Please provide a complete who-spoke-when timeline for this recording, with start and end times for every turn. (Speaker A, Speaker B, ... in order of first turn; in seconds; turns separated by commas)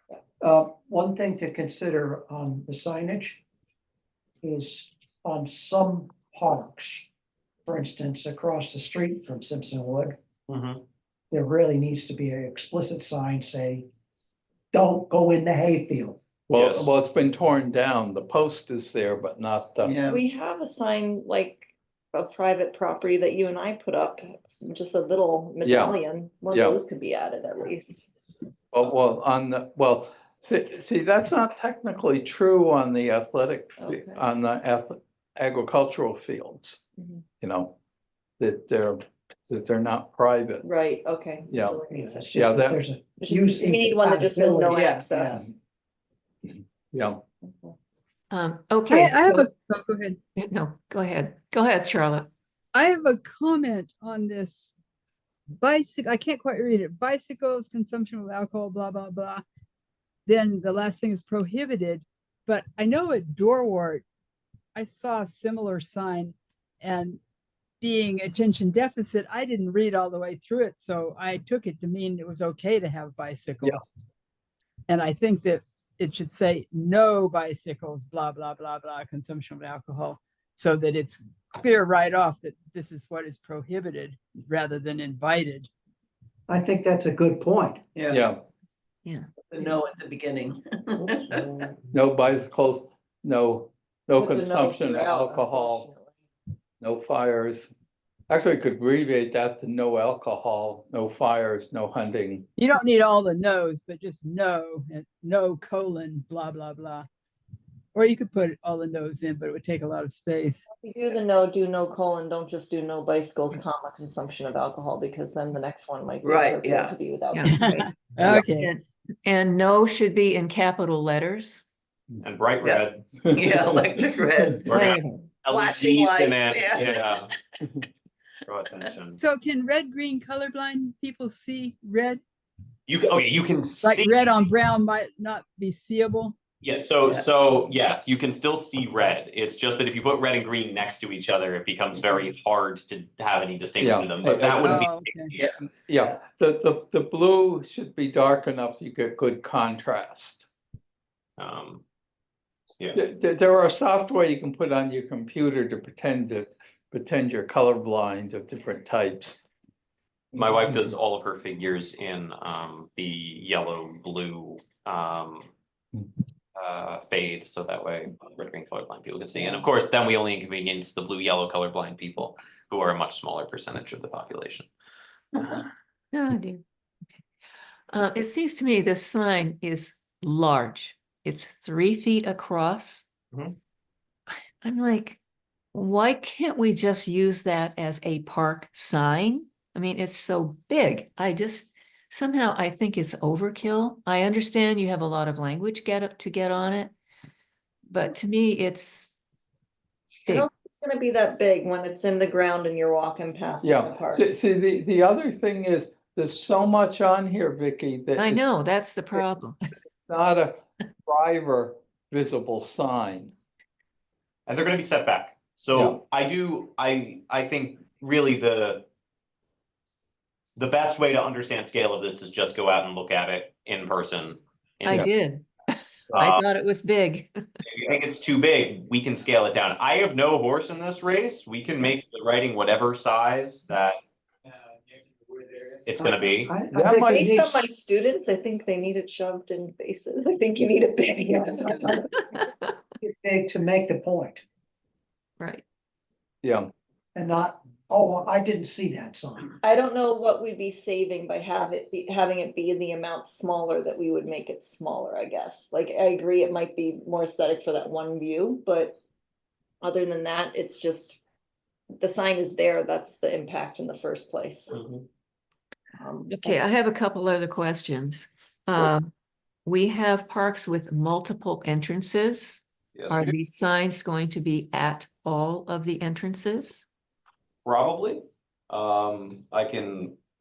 Speaker A: 0.4-3.4, Speaker A: 4.4-7.1, Speaker A: 7.7-10.2, Speaker B: 10.5-10.8, Speaker A: 11.3-13.9, Speaker A: 14.7-16.2, Speaker C: 16.5-19.9, Speaker B: 16.5-16.9, Speaker D: 19.8-20.2, Speaker E: 20.1-28.1, Speaker C: 25.6-26.0, Speaker C: 26.5-26.8, Speaker C: 28.7-36.8, Speaker E: 33.8-34.2, Speaker E: 37.0-37.2, Speaker C: 37.4-37.8, Speaker C: 38.4-40.6, Speaker E: 40.6-42.3, Speaker C: 41.5-41.8, Speaker A: 41.9-45.4, Speaker C: 42.3-42.8, Speaker E: 43.2-45.5, Speaker D: 44.7-45.4, Speaker C: 46.9-47.2, Speaker E: 47.4-47.8, Speaker F: 48.3-49.2, Speaker G: 48.9-50.2, Speaker F: 50.4-52.3, Speaker G: 52.7-54.8, Speaker G: 55.6-59.4, Speaker G: 60.3-64.0, Speaker G: 64.8-67.2, Speaker G: 67.8-73.9, Speaker G: 74.9-85.7, Speaker A: 86.5-87.9, Speaker D: 88.0-88.2, Speaker C: 88.1-88.4, Speaker D: 89.4-91.7, Speaker C: 91.9-95.9, Speaker E: 94.2-96.2, Speaker C: 96.8-97.7, Speaker C: 98.3-102.5, Speaker G: 102.6-107.1, Speaker G: 107.9-110.6, Speaker E: 110.7-118.1, Speaker D: 116.2-117.0, Speaker F: 117.3-117.6, Speaker G: 117.5-118.7, Speaker F: 118.2-121.7, Speaker B: 122.2-123.1, Speaker D: 122.6-127.3, Speaker B: 124.7-127.3, Speaker F: 124.8-125.3, Speaker B: 128.5-129.2, Speaker G: 129.2-132.2, Speaker B: 132.9-134.3, Speaker G: 133.8-136.4, Speaker B: 136.6-145.6, Speaker C: 143.8-144.8, Speaker G: 144.6-145.3, Speaker C: 145.4-150.5, Speaker B: 151.4-151.8, Speaker C: 152.9-159.4, Speaker B: 160.3-165.5, Speaker B: 166.6-174.7, Speaker B: 175.3-175.7, Speaker F: 176.1-176.6, Speaker F: 177.9-183.1, Speaker F: 184.6-185.2, Speaker F: 185.7-196.9, Speaker F: 197.9-199.1, Speaker E: 200.3-204.2, Speaker C: 203.6-208.4, Speaker F: 208.2-209.6, Speaker C: 210.1-213.3, Speaker B: 214.5-218.9, Speaker C: 215.7-216.0, Speaker B: 220.6-225.1, Speaker F: 224.9-227.3, Speaker B: 226.1-226.4, Speaker B: 227.7-234.0, Speaker B: 235.9-236.5, Speaker A: 236.0-237.6, Speaker C: 236.7-237.3, Speaker E: 237.1-242.0, Speaker A: 241.3-241.9, Speaker A: 243.0-244.4, Speaker F: 245.4-245.6, Speaker C: 246.4-246.7, Speaker A: 247.2-249.6, Speaker E: 249.6-259.0, Speaker E: 259.8-261.2, Speaker E: 262.0-264.7, Speaker B: 264.7-265.0, Speaker E: 266.0-266.6, Speaker F: 266.3-269.1, Speaker F: 269.7-276.9, Speaker B: 272.9-273.4, Speaker B: 277.6-280.2